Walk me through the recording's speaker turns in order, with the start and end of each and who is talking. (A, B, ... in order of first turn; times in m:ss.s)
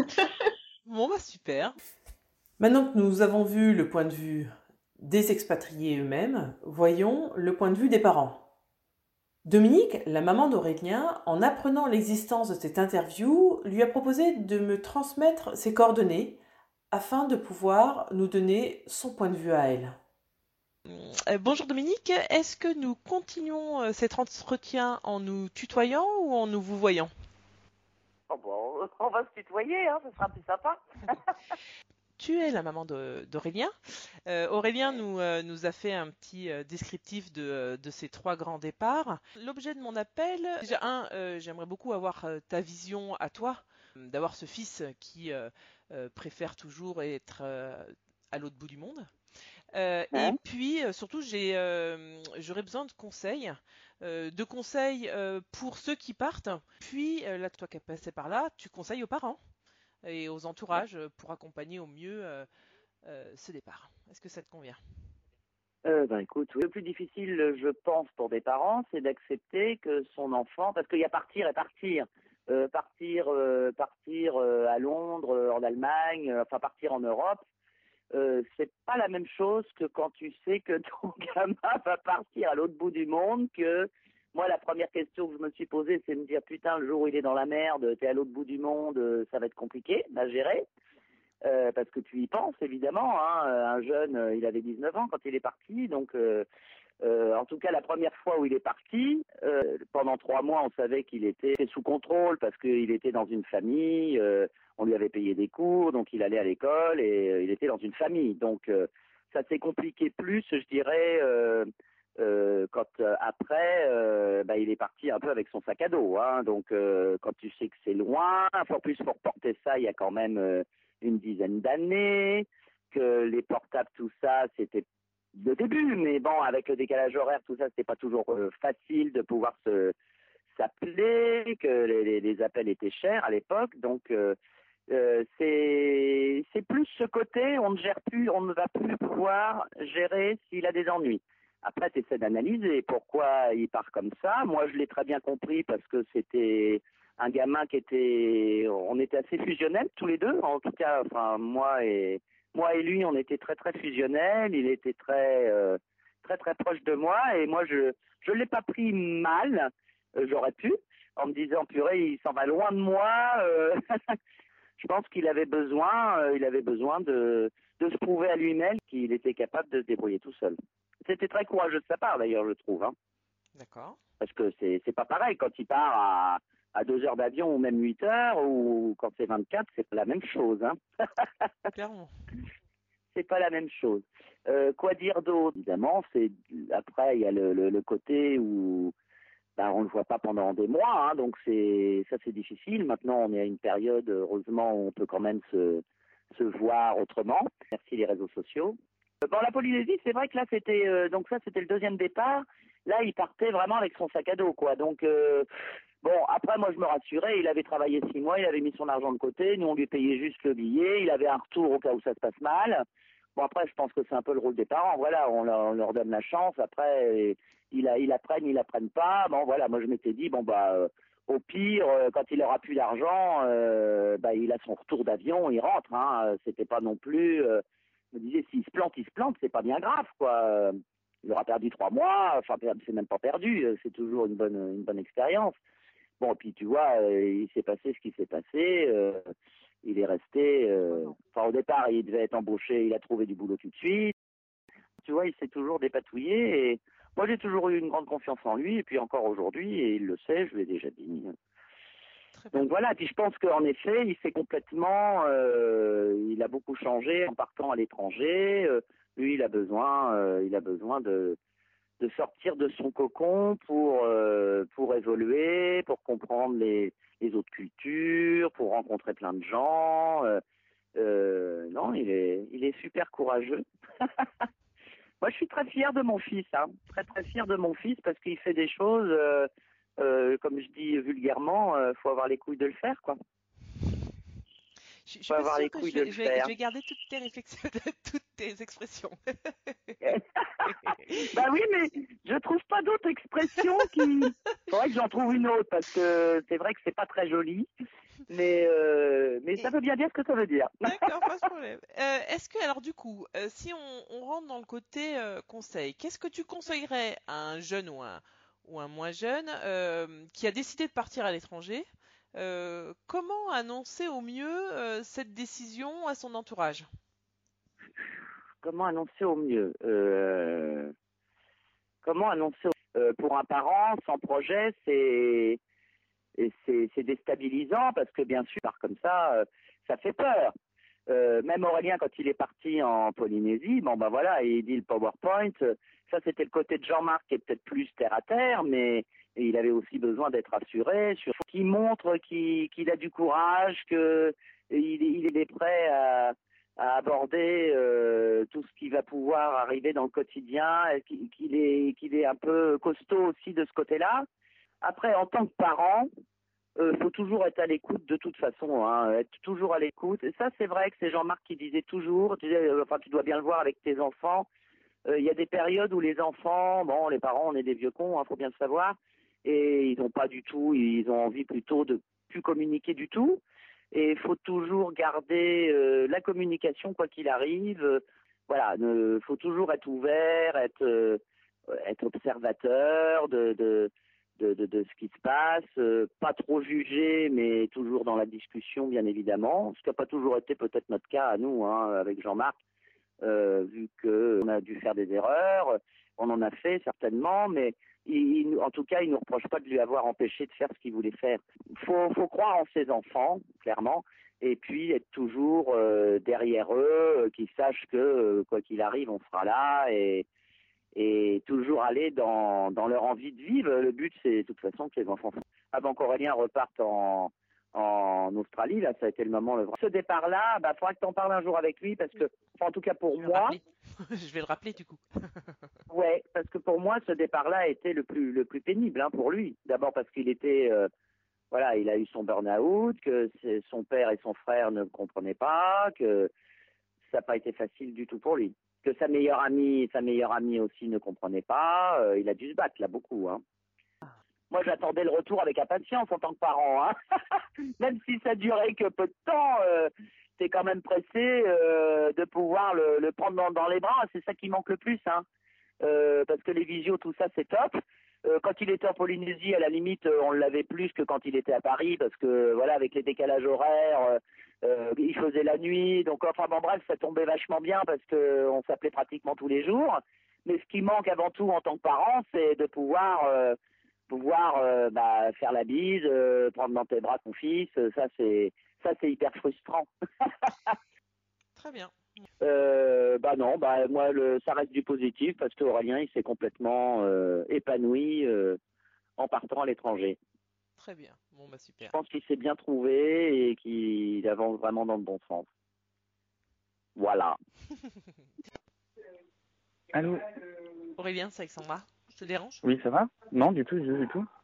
0:00.8-0:01.8 A
0:02.6-0:08.4 B
0:09.4-0:16.4 B
0:16.9-0:20.0 B
0:20.9-0:27.1 A
0:28.3-0:31.1 C
0:32.2-0:33.7 A
0:34.2-0:49.1 A
0:49.7-0:59.4 A
0:50.1-0:50.4 C
1:00.0-1:02.5 A
1:03.0-1:04.8 A
1:05.8-1:17.4 C
1:18.1-1:30.6 C
1:31.4-1:36.4 C
1:37.0-2:09.9 C
2:10.6-2:14.4 C
2:14.9-2:44.2 C
2:44.8-2:52.9 C
2:53.5-2:54.0 A
2:54.2-3:01.5 C
3:01.7-3:02.1 A
3:03.1-3:08.9 C
3:09.6-3:25.5 C
3:26.0-3:32.8 C
3:33.4-3:55.6 C
3:56.2-3:59.2 C
3:59.8-4:04.1 C
4:05.0-4:11.3 C
4:12.3-4:12.6 A
4:12.5-4:21.4 C
4:22.0-4:30.4 C
4:31.0-4:34.0 C
4:35.2-4:43.2 C
4:45.0-4:50.0 A
4:45.3-4:46.5 C
4:50.0-4:57.7 C
4:50.8-4:51.3 A
4:58.3-5:01.1 C
5:00.8-5:16.9 A
5:18.6-5:20.9 C
5:22.0-5:25.6 C
5:26.4-5:30.5 C
5:31.1-5:54.2 C
5:54.8-5:56.1 C
5:56.8-6:04.5 C
6:05.1-6:13.4 C
6:13.9-6:21.2 C
6:21.7-6:32.6 C
6:33.2-6:50.2 C
6:50.9-7:03.6 C
7:03.2-7:05.5 A
7:05.9-7:10.9 C
7:11.5-7:16.3 C
7:17.1-7:23.4 C
7:24.5-7:27.0 C
7:27.8-7:35.2 C
7:35.8-7:53.6 C
7:54.1-7:59.9 C
8:01.6-8:02.3 A
8:02.4-8:08.6 C
8:09.2-8:10.2 C
8:10.8-8:11.9 A
8:11.8-8:15.5 C
8:17.0-8:17.4 C
8:19.9-8:20.2 D
8:21.0-8:22.6 A
8:22.6-8:24.3 D